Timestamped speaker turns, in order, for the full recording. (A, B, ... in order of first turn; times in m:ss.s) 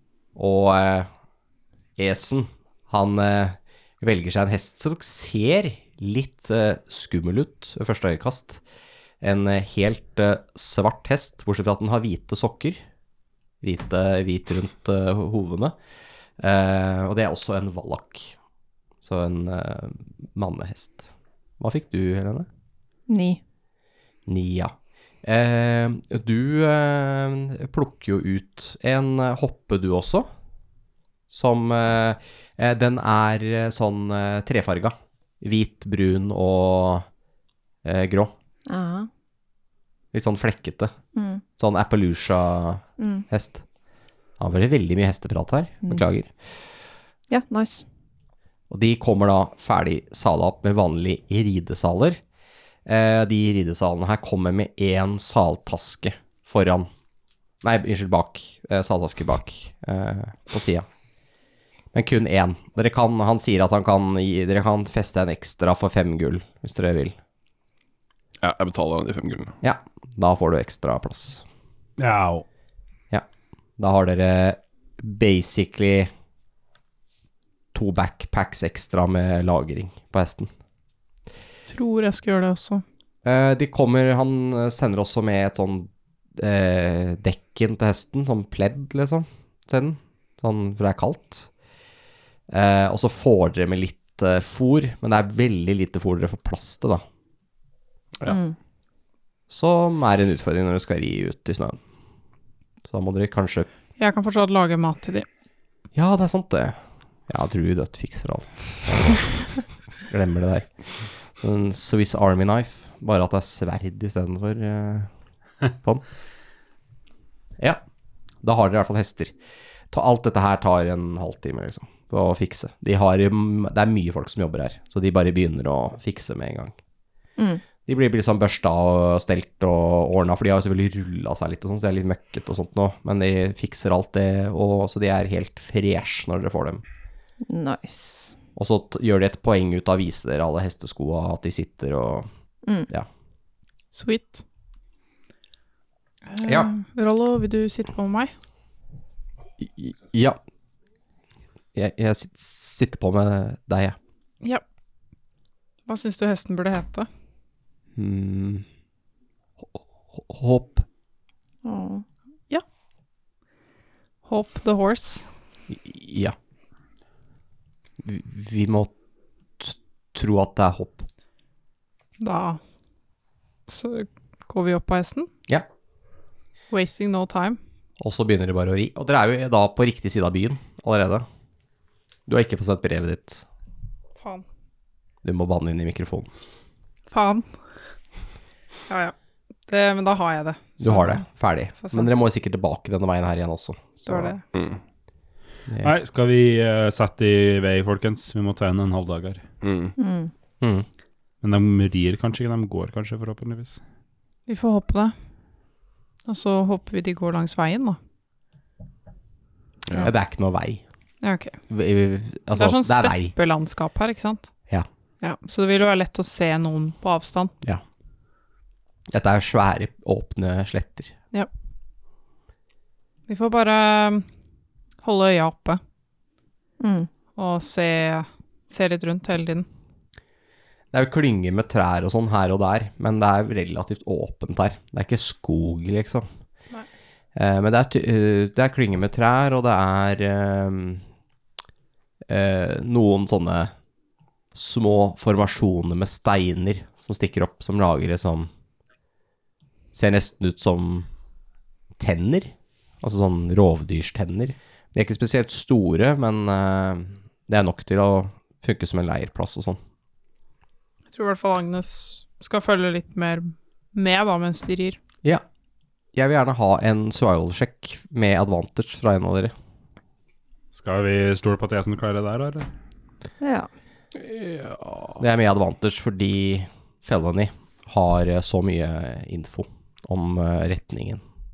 0:00.4-0:01.1 A
0:02.0-0:08.6 A
0:09.2-0:12.8 A
0:13.6-0:15.7 A
0:16.4-0:18.4 A
0:19.0-0:22.5 A
0:23.1-0:23.4 B
0:24.3-0:30.3 A
0:31.3-0:37.0 A
0:37.8-0:38.3 A
0:38.7-0:39.1 B
0:40.1-0:40.9 A
0:41.1-0:41.4 B
0:41.6-0:43.6 A
0:43.0-0:43.2 B
0:44.4-0:46.3 A
0:47.3-0:47.8 B
0:48.7-0:52.2 A
0:52.8-0:56.9 A
0:57.6-1:00.8 A
1:01.9-1:07.2 A
1:08.4-1:09.5 C
1:09.6-1:11.4 A
1:12.0-1:12.4 D
1:13.8-1:16.1 A
1:17.7-1:20.5 A
1:21.7-1:22.8 E
1:23.2-1:31.5 A
1:32.5-1:37.0 A
1:38.3-1:38.6 B
1:39.5-1:41.8 A
1:42.9-1:43.7 A
1:44.0-1:45.3 E
1:45.9-1:46.8 A
1:47.3-1:49.3 A
1:50.0-1:50.7 A
1:51.4-1:55.1 A
1:55.7-1:56.0 A
1:58.4-1:59.3 A
1:59.9-2:06.8 A
2:07.4-2:07.6 B
2:07.8-2:16.8 A
2:17.4-2:18.3 B
2:18.6-2:22.3 A
2:23.9-2:24.4 E
2:26.3-2:28.3 E
2:26.4-2:26.7 A
2:29.6-2:30.4 A
2:31.7-2:34.0 A
2:35.8-2:37.1 E
2:38.0-2:38.6 A
2:39.7-2:40.8 A
2:41.6-2:42.0 B
2:44.2-2:45.3 E
2:45.7-2:46.4 A
2:48.0-2:48.9 A
2:49.6-2:51.0 A
2:52.2-2:52.6 E
2:53.7-2:55.3 E
2:56.7-2:57.6 E
2:58.0-3:01.2 A
3:02.3-3:03.4 A
3:04.2-3:04.4 E
3:05.2-3:06.3 A
3:07.1-3:07.5 E
3:08.9-3:09.1 E
3:09.7-3:11.2 E
3:10.8-3:14.3 A
3:11.8-3:12.1 E
3:14.0-3:14.4 E
3:14.5-3:14.8 C
3:15.7-3:15.9 A
3:15.8-3:19.4 D
3:19.6-3:20.0 C
3:20.0-3:20.3 B
3:21.4-3:23.8 D
3:24.5-3:25.1 E
3:26.2-3:28.0 E
3:30.0-3:30.8 A
3:31.2-3:31.6 E
3:31.7-3:33.3 A
3:32.5-3:34.5 E
3:35.2-3:37.5 E
3:39.1-3:41.1 A
3:43.3-3:44.3 E
3:45.0-3:45.8 E
3:46.8-3:47.1 B
3:47.4-3:49.7 E
3:50.9-3:56.3 A
3:57.3-4:01.0 A
4:02.3-4:03.7 A
4:04.5-4:08.5 A
4:09.9-4:11.1 A
4:12.0-4:19.8 A
4:21.1-4:25.0 E
4:26.1-4:29.5 A
4:30.7-4:32.7 D
4:33.4-4:33.7 B
4:34.3-4:35.1 C
4:35.2-4:41.2 A